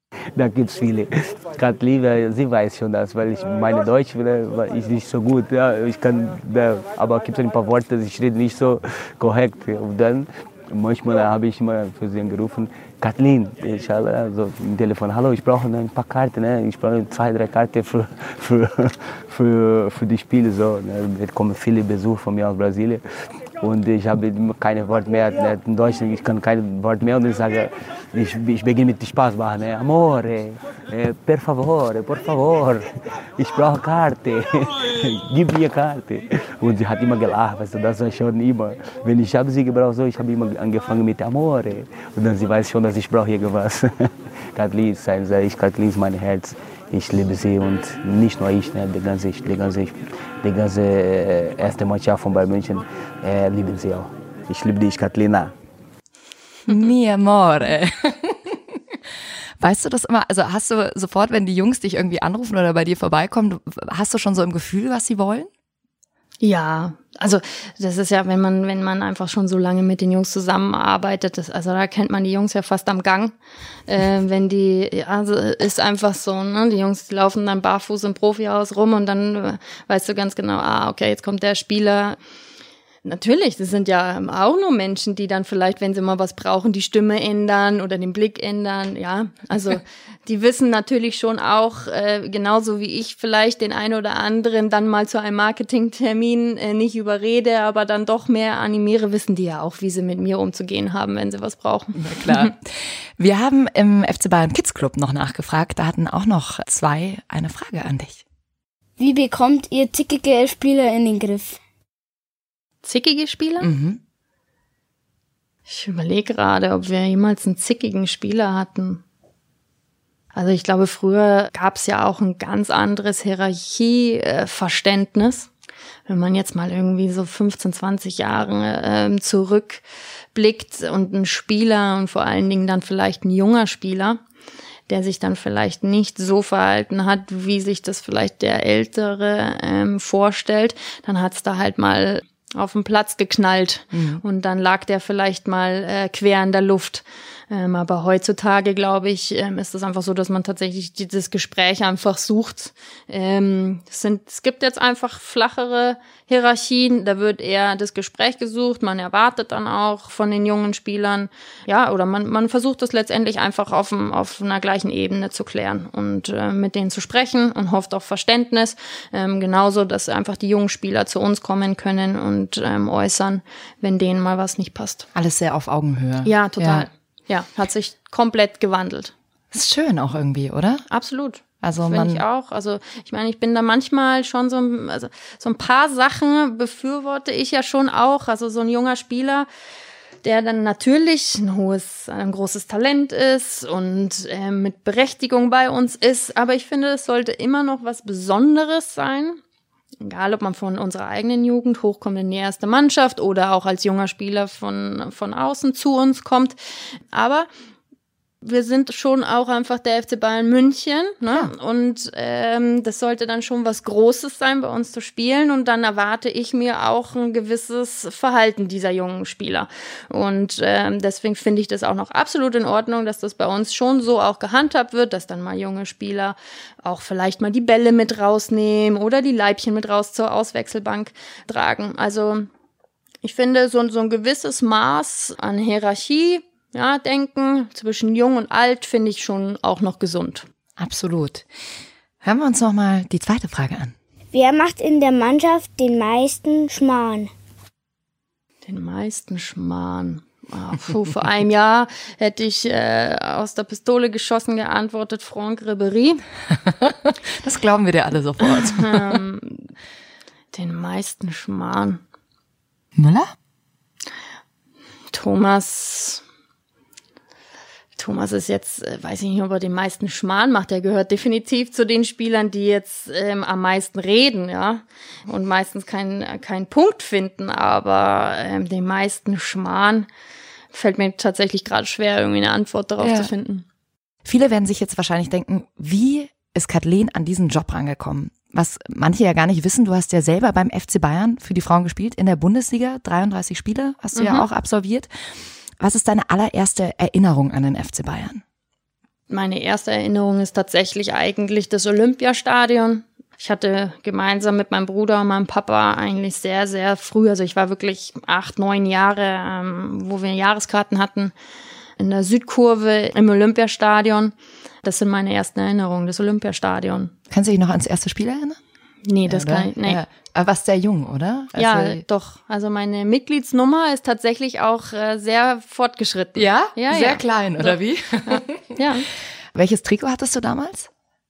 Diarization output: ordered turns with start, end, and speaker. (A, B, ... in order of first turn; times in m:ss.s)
0:00.3-0:23.0 A
0:23.6-0:55.5 A
0:56.7-0:58.6 B
0:59.6-1:05.5 B
1:06.4-1:13.4 C
1:13.9-1:22.2 C
1:23.0-1:42.5 C
1:42.0-1:48.2 B
1:49.0-1:51.6 D
1:52.8-1:53.7 C
1:53.6-1:54.0 B
1:55.7-1:59.0 C
2:00.3-2:05.5 C
2:06.1-2:09.8 C
2:10.3-2:14.2 C
2:14.9-2:55.1 C
2:23.9-2:24.2 B
2:55.2-2:56.9 B
2:56.2-2:59.1 C
2:59.5-3:00.8 B
3:00.9-3:09.5 C
3:01.6-3:02.2 B
3:10.2-3:19.4 C
3:20.0-3:26.6 C
3:27.1-3:27.5 C
3:28.4-3:52.5 C
3:53.2-4:00.5 C
4:00.8-4:01.4 B
4:02.2-4:04.0 B
4:04.3-4:07.3 D
4:08.7-4:16.2 C
4:16.7-4:19.2 B
4:18.6-4:19.7 C
4:20.5-4:22.0 C
4:23.0-4:23.3 B
4:25.1-4:26.2 C
4:28.0-4:40.1 C
4:40.7-4:43.6 C
4:43.0-4:43.3 B
4:44.2-4:55.1 B
4:54.2-4:54.5 C
4:55.8-4:58.4 B
4:59.3-5:11.3 C
5:12.0-5:17.1 C
5:17.3-5:18.6 B
5:19.0-5:20.0 C
5:19.3-5:22.0 B
5:21.6-5:29.1 C
5:26.4-5:28.8 B
5:29.5-5:30.9 B